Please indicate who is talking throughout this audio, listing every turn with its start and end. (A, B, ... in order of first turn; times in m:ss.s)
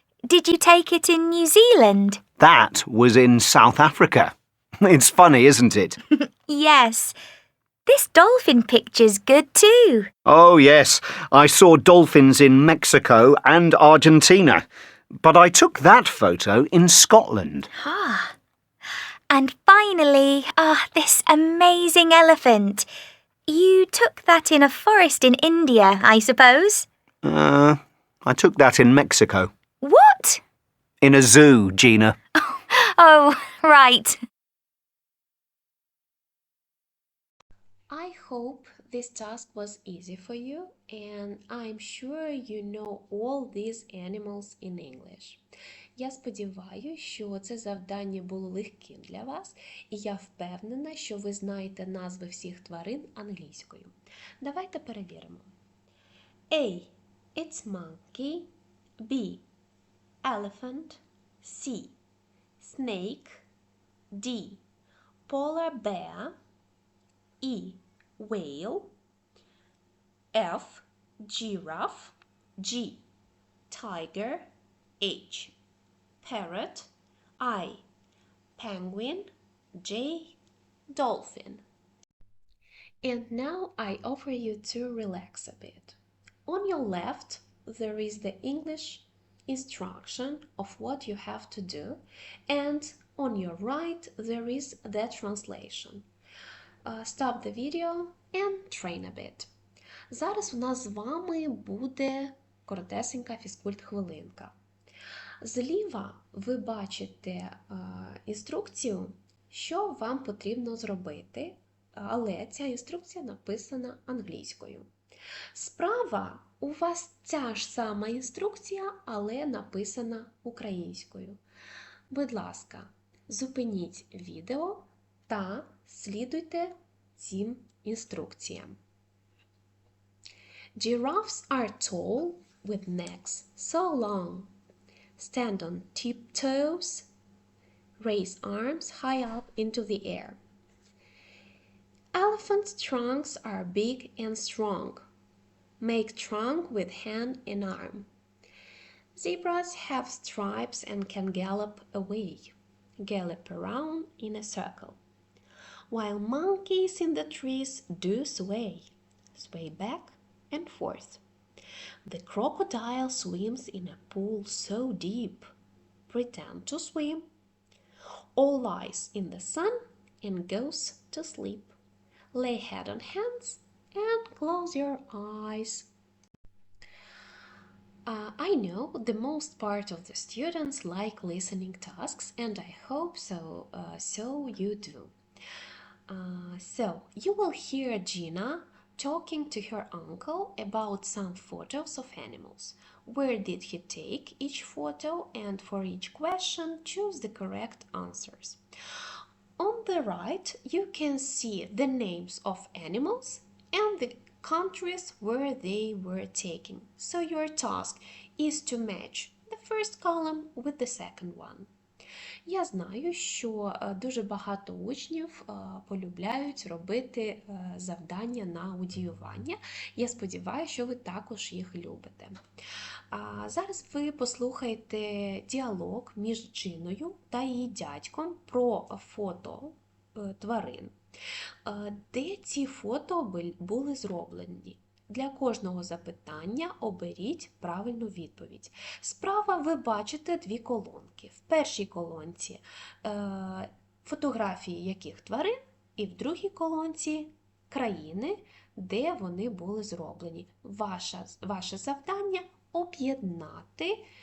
0:00.3-0:02.2 A
0:02.4-0:06.0 B
0:06.2-0:07.1 A
0:07.8-0:10.1 A
0:10.2-0:14.6 B
0:15.2-0:17.7 B
0:17.8-0:18.3 A
0:19.3-0:22.9 A
0:23.5-0:26.8 A
0:27.2-0:29.5 B
0:29.8-0:30.4 A
0:31.0-0:32.2 B
0:32.4-0:34.2 A
0:37.9-0:45.4 C
0:46.0-0:55.5 C
0:56.5-0:58.5 C
0:59.0-0:59.4 C
1:00.2-1:02.0 C
1:02.6-1:03.4 C
1:04.1-1:04.6 C
1:05.3-1:06.4 C
1:07.4-1:08.9 C
1:10.3-1:13.0 C
1:13.7-1:14.5 C
1:15.0-1:15.5 C
1:16.2-1:17.8 C
1:18.6-1:20.4 C
1:20.9-1:21.6 C
1:23.0-1:36.0 C
1:36.8-1:39.5 C
1:40.1-1:44.5 C
1:45.4-1:54.9 C
1:55.5-2:01.4 C
2:02.1-2:08.8 C
2:10.8-2:14.5 C
2:15.2-2:17.1 C
2:18.0-2:20.4 C
2:22.1-2:25.0 C
2:25.8-2:28.1 C
2:29.2-2:35.0 C
2:35.9-2:41.2 C
2:42.0-2:45.4 C
2:46.1-2:47.2 C
2:48.4-2:51.7 C
2:52.3-2:55.9 C
2:58.0-3:05.1 C
3:06.1-3:18.6 C
3:19.6-3:31.7 C
3:32.4-3:42.4 C
3:43.1-3:50.9 C
3:51.6-4:14.0 C